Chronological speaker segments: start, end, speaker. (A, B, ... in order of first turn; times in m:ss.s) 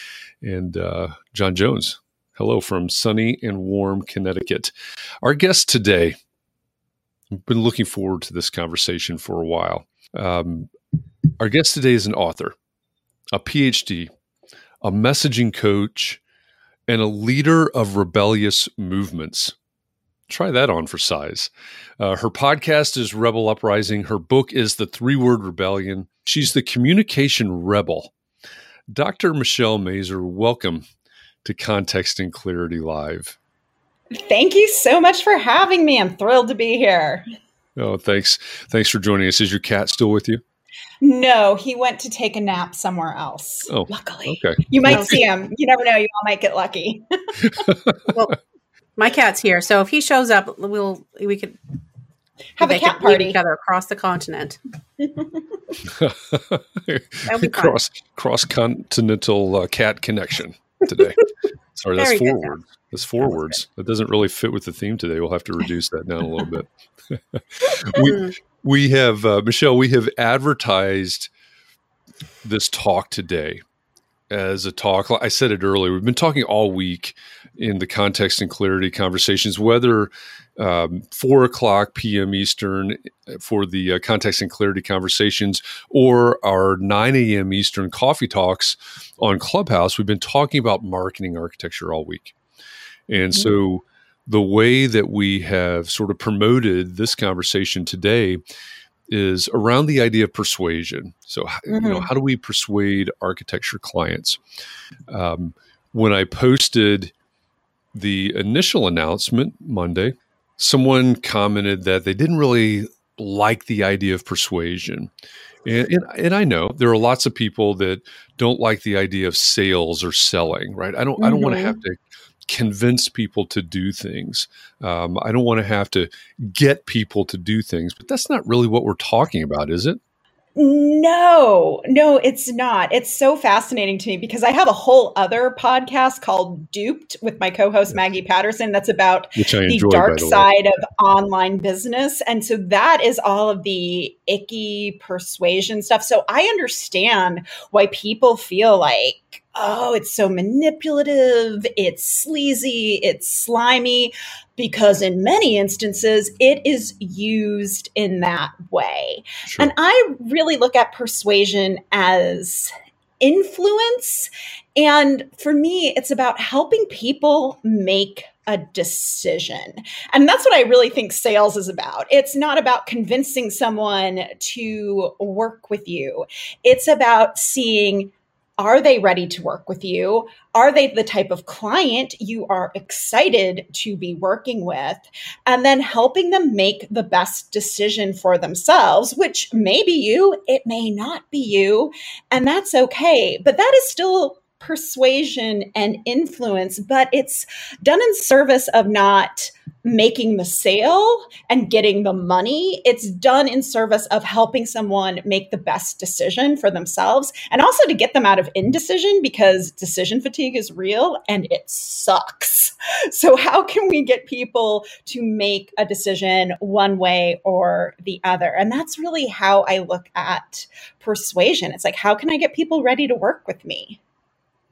0:00.4-0:06.2 A
0:07.4-0:10.7 A
0:11.4-0:12.6 A
0:13.3-0:14.1 A
0:14.8-0:16.2 A
0:16.9-0:19.5 A
0:20.3-0:28.1 A
0:28.9-0:30.8 A
0:31.4-0:33.4 A
0:34.1-0:37.2 B
0:37.8-0:40.4 A
0:41.0-0:47.4 B
0:43.7-0:45.2 A
0:44.9-0:45.2 C
0:47.4-0:48.1 A
0:48.1-0:48.4 C
0:49.0-0:51.6 C
0:52.6-0:53.4 B
0:52.6-0:54.6 C
0:55.0-0:55.3 B
0:55.9-1:01.2 A
0:57.3-0:57.8 C
1:01.8-1:11.3 A
1:02.0-1:02.5 C
1:03.2-1:03.6 C
1:08.0-1:08.3 C
1:12.4-1:13.6 A
1:14.3-1:32.3 A
1:33.1-1:38.4 A
1:39.1-1:44.4 A
1:41.7-1:42.1 B
1:45.1-1:47.1 A
1:47.9-1:55.1 A
1:55.6-2:10.0 A
2:01.2-2:01.8 B
2:10.6-3:44.0 B
2:19.4-2:20.5 A